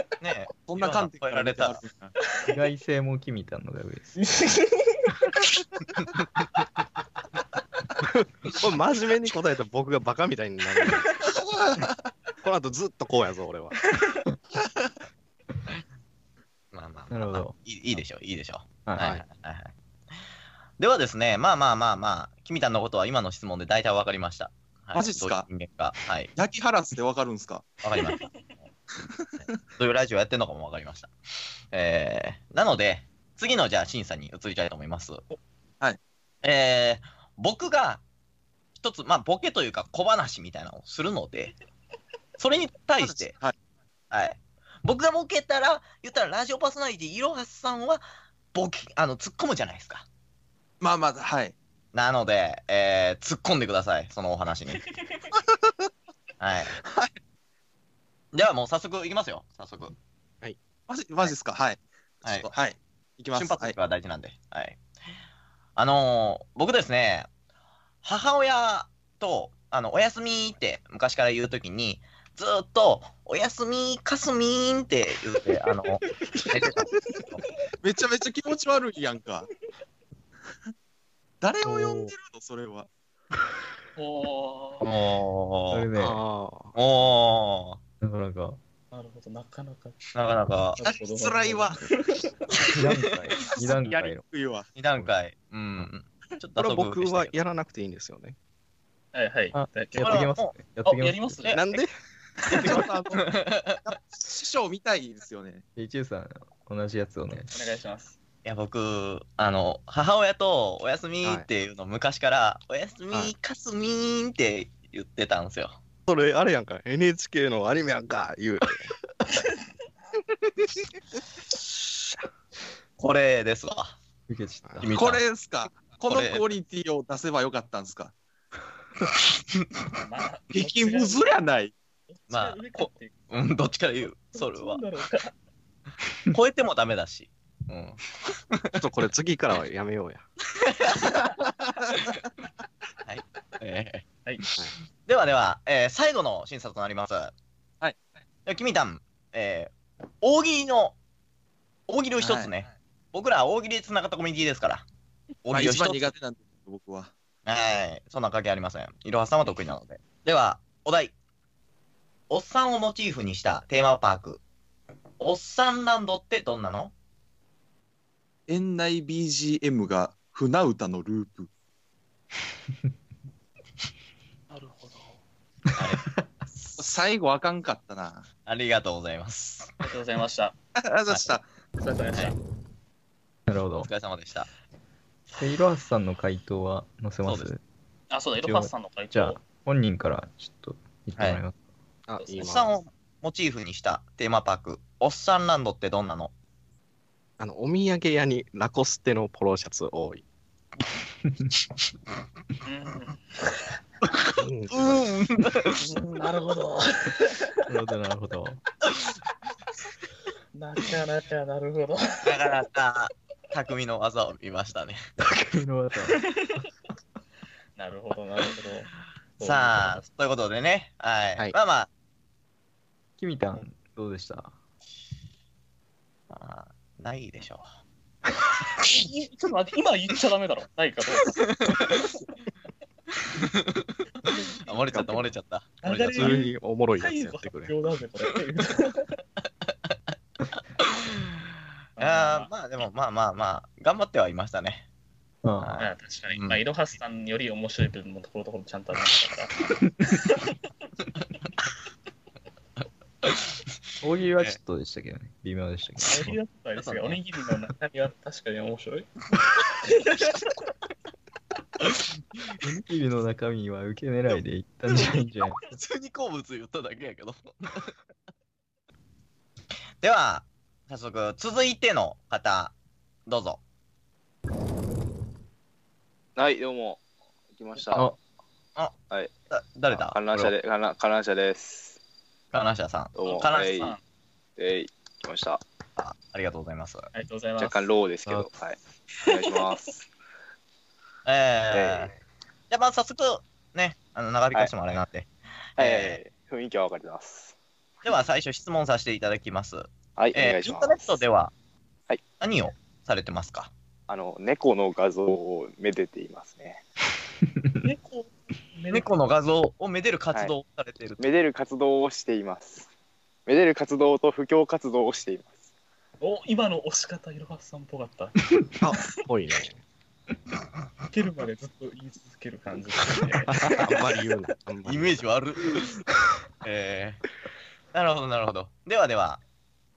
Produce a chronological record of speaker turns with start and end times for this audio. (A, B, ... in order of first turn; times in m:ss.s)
0:00.2-0:01.8 A
0:00.7-0:02.1 B
0:02.5-0:04.1 C
0:04.2-0:04.9 D
0:08.6-0:11.1 E
0:11.4-0:11.9 B
0:12.4-0:13.8 E
0:16.7-0:19.7 A
0:17.1-0:17.6 C
0:18.9-0:19.2 C
0:19.0-0:19.2 E
0:20.8-0:26.3 A
0:24.9-0:25.5 B
0:26.4-0:27.7 B
0:27.8-0:28.3 A
0:28.0-0:28.3 D
0:29.2-0:29.5 B
0:29.4-0:31.1 A
0:31.7-0:35.2 A
0:36.4-0:38.0 A
0:38.8-0:41.6 A
0:42.4-0:43.4 A
0:43.0-0:43.6 B
0:44.1-0:48.0 A
0:48.5-0:50.0 A
0:50.8-0:51.6 B
0:51.9-0:54.8 A
0:56.4-0:56.8 A
0:56.8-0:57.1 B
0:58.3-1:00.0 A
1:00.9-1:03.8 B
1:03.3-1:04.8 A
1:05.8-1:07.3 A
1:08.0-1:17.4 A
1:17.8-1:19.5 B
1:21.4-1:22.9 B
1:21.6-1:22.1 C
1:24.0-1:24.9 D
1:24.8-1:25.9 A
1:25.7-1:26.2 C
1:26.0-1:26.8 E
1:26.8-1:27.8 A
1:28.0-1:28.6 C
1:28.9-1:30.0 D
1:30.2-1:30.8 A
1:30.8-1:32.7 D
1:30.8-1:31.9 B
1:32.7-1:34.2 C
1:33.6-1:34.7 B
1:34.8-1:37.4 A
1:36.6-1:38.4 E
1:39.1-1:40.3 D
1:39.5-1:41.4 C
1:40.0-1:40.5 A
1:40.8-1:41.8 D
1:41.5-1:41.9 E
1:42.4-1:45.6 B
1:42.5-1:43.9 A
1:45.8-1:47.6 C
1:47.5-1:48.2 D
1:48.4-1:55.8 A
1:56.1-1:58.9 E
2:01.6-2:02.2 E
2:03.0-2:04.0 A
2:04.3-2:05.1 C
2:04.8-2:05.2 A
2:04.9-2:08.1 B
2:06.1-2:06.5 A
2:10.0-2:11.4 D
2:10.5-2:11.7 B
2:12.1-2:13.2 D
2:12.3-2:14.8 A
2:14.3-2:15.3 D
2:16.3-2:18.8 A
2:18.8-2:20.2 E
2:20.6-2:21.1 A
2:23.0-2:24.0 A
2:25.1-2:27.3 A
2:28.5-2:31.0 A
2:31.9-2:34.8 A
2:32.2-2:32.5 B
2:35.4-2:36.1 A
2:35.5-2:37.1 B
2:37.5-2:41.1 A
2:42.3-2:44.4 A
2:45.2-2:46.9 A
2:48.5-2:51.5 B
2:54.5-2:55.2 D
2:55.8-2:56.8 A
2:56.8-2:58.3 B
2:58.5-2:59.8 A
2:59.8-3:00.6 D
3:00.8-3:01.4 B
3:01.1-3:01.4 A
3:01.8-3:02.4 D
3:03.5-3:03.9 C
3:03.8-3:04.5 A
3:05.4-3:07.6 C
3:07.2-3:07.5 A
3:08.1-3:09.4 D
3:08.4-3:11.6 C
3:12.1-3:12.7 E
3:12.4-3:16.3 A
3:17.4-3:20.2 E
3:22.6-3:23.5 D
3:24.2-3:25.9 A
3:24.4-3:25.1 E
3:25.8-3:27.5 D
3:27.7-3:28.6 C
3:30.5-3:32.4 D
3:32.2-3:35.0 A
3:35.2-3:36.2 C
3:36.1-3:36.5 D
3:37.8-3:40.0 D
3:39.4-3:41.9 A
3:43.2-3:44.6 C
3:46.3-3:47.6 A
3:48.9-3:51.5 D
3:53.3-3:53.8 A
3:54.2-3:55.3 D
3:54.6-3:56.4 A
3:55.8-3:59.2 D
3:56.1-3:57.7 E
4:02.0-4:02.5 D
4:02.0-4:04.8 A
4:05.4-4:05.7 C
4:05.6-4:06.6 A
4:05.8-4:09.5 D
4:10.0-4:10.5 D
4:14.0-4:16.4 C
4:16.1-4:19.1 D
4:16.8-4:17.2 A
4:19.8-4:20.4 D
4:22.6-4:25.6 C
4:25.7-4:27.9 A
4:30.0-4:32.7 A
4:33.3-4:33.6 A
4:36.4-4:37.0 F
4:37.6-4:38.1 F
4:39.5-4:40.5 A
4:39.9-4:42.0 F
4:42.5-4:43.9 A
4:43.2-4:43.9 F
4:43.2-4:44.0 D
4:44.6-4:45.6 F
4:46.0-4:47.1 A
4:47.1-4:47.9 D
4:47.6-4:50.1 F
4:51.3-4:52.1 A
4:51.7-4:52.1 F
4:52.7-4:56.2 A
4:55.8-4:57.6 F
4:58.0-5:01.5 A
5:00.2-5:01.2 F
5:02.4-5:03.7 A
5:04.1-5:06.8 F
5:07.8-5:09.1 D
5:08.9-5:11.2 A
5:11.2-5:12.9 F
5:13.5-5:15.7 F
5:16.2-5:18.4 D
5:18.8-5:19.8 E
5:21.1-5:23.9 D
5:23.6-5:25.2 E
5:24.8-5:26.1 A
5:26.6-5:27.2 A
5:27.9-5:29.4 A